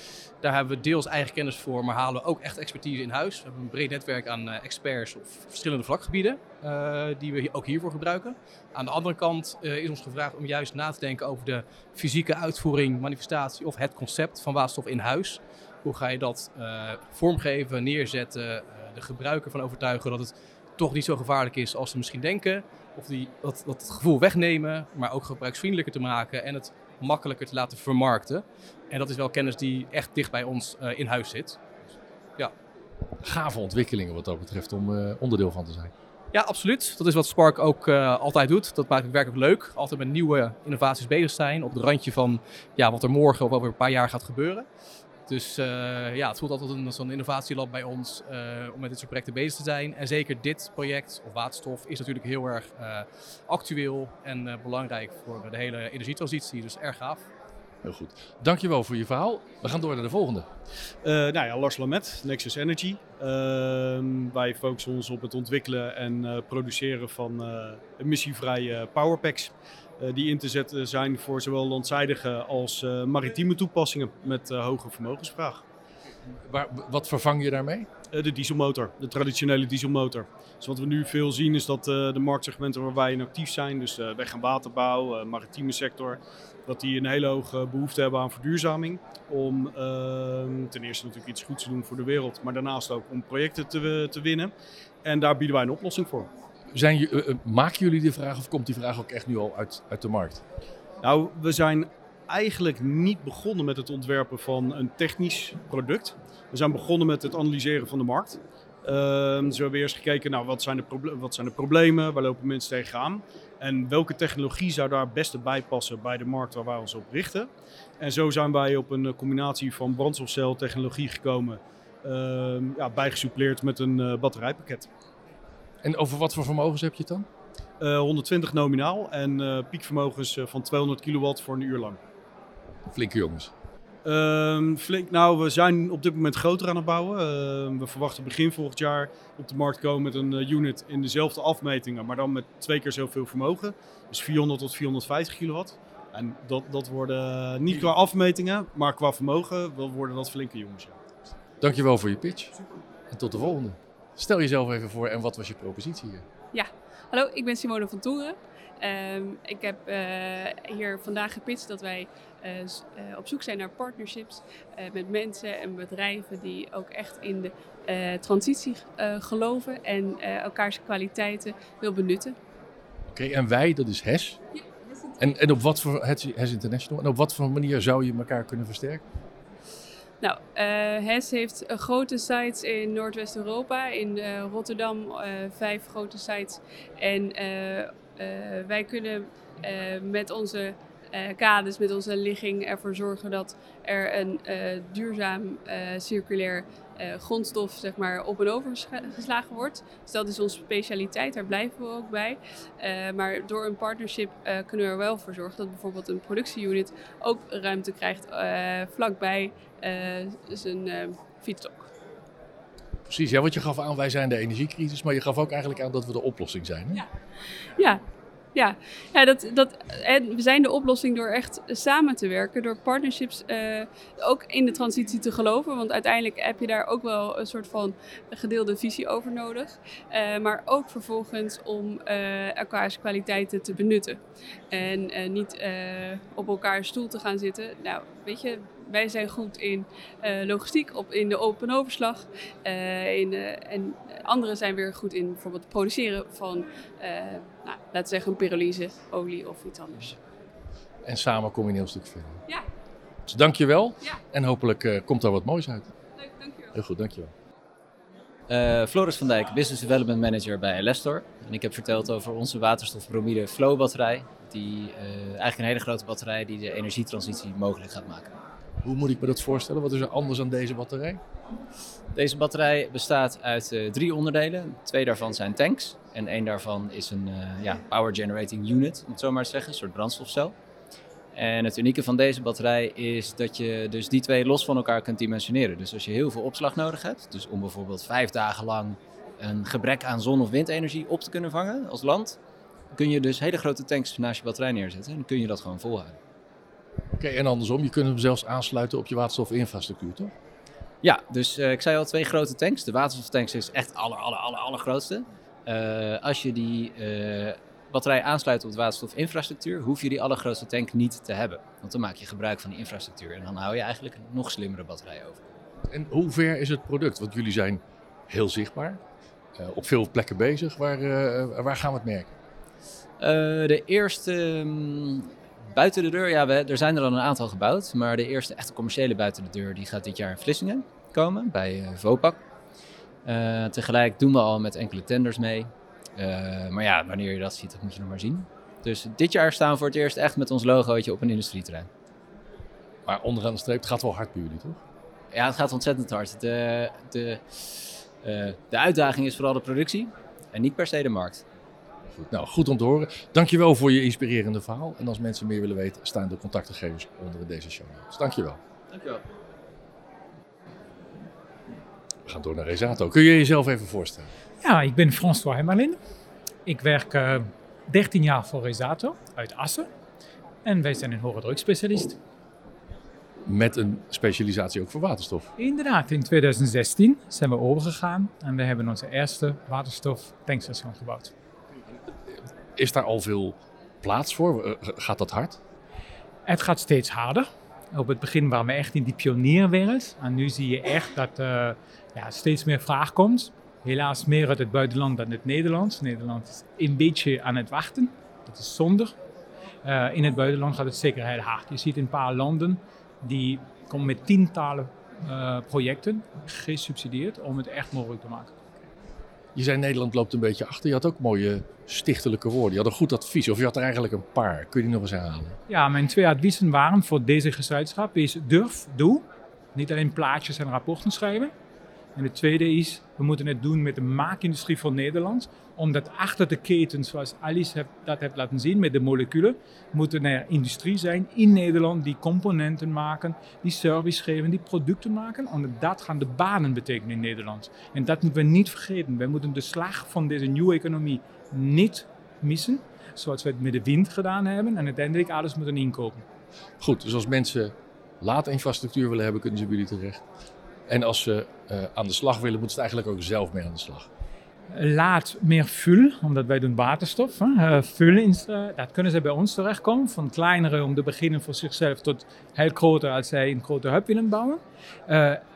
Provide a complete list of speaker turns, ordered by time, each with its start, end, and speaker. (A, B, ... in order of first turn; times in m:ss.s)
0:00.4-0:31.6 A
0:33.2-0:35.9 B
0:36.3-0:44.6 A
0:45.3-0:57.2 A
0:57.8-1:00.5 B
1:01.0-1:15.6 C
1:16.5-1:17.9 B
1:18.1-1:34.5 C
1:35.0-1:36.3 C
1:36.7-1:40.4 B
1:41.0-2:04.9 C
2:05.8-2:07.2 B
2:07.8-2:12.0 C
2:12.9-2:13.5 B
2:14.0-2:31.0 C
2:31.6-2:32.6 B
2:33.1-2:36.2 B
2:36.5-2:52.4 D
2:53.1-2:54.4 B
2:55.2-2:59.0 B
3:00.2-3:31.9 D
3:33.1-3:37.0 B
3:37.8-3:38.0 D
3:38.5-4:10.2 D
4:11.0-4:12.4 B
4:13.3-4:15.9 B
4:16.2-4:16.7 D
4:16.7-4:17.3 B
4:18.5-4:28.3 E
4:28.8-4:31.2 B
4:32.1-4:40.5 E
4:41.3-4:52.4 E
4:52.9-4:56.2 E
4:57.1-5:00.3 B
5:01.0-5:15.6 E
5:15.9-5:19.0 B
5:19.6-5:22.3 B
5:23.2-5:32.4 E
5:33.2-5:41.9 E
5:43.0-5:44.8 B
5:45.3-5:47.4 E
5:48.2-5:51.4 E
5:52.1-5:58.6 B
5:58.9-5:59.2 E
6:02.3-6:04.3 B
6:04.6-6:06.0 F
6:06.6-6:09.9 F
6:10.6-6:12.2 F
6:13.4-6:15.5 B
6:15.6-6:21.3 F
6:22.3-6:25.6 B
6:26.4-6:39.1 F
6:39.8-6:48.5 F
6:49.5-6:55.6 B
6:55.7-7:01.5 F
7:02.2-7:26.2 F
7:26.8-7:30.2 B
7:30.9-7:34.1 B
7:34.7-7:45.4 F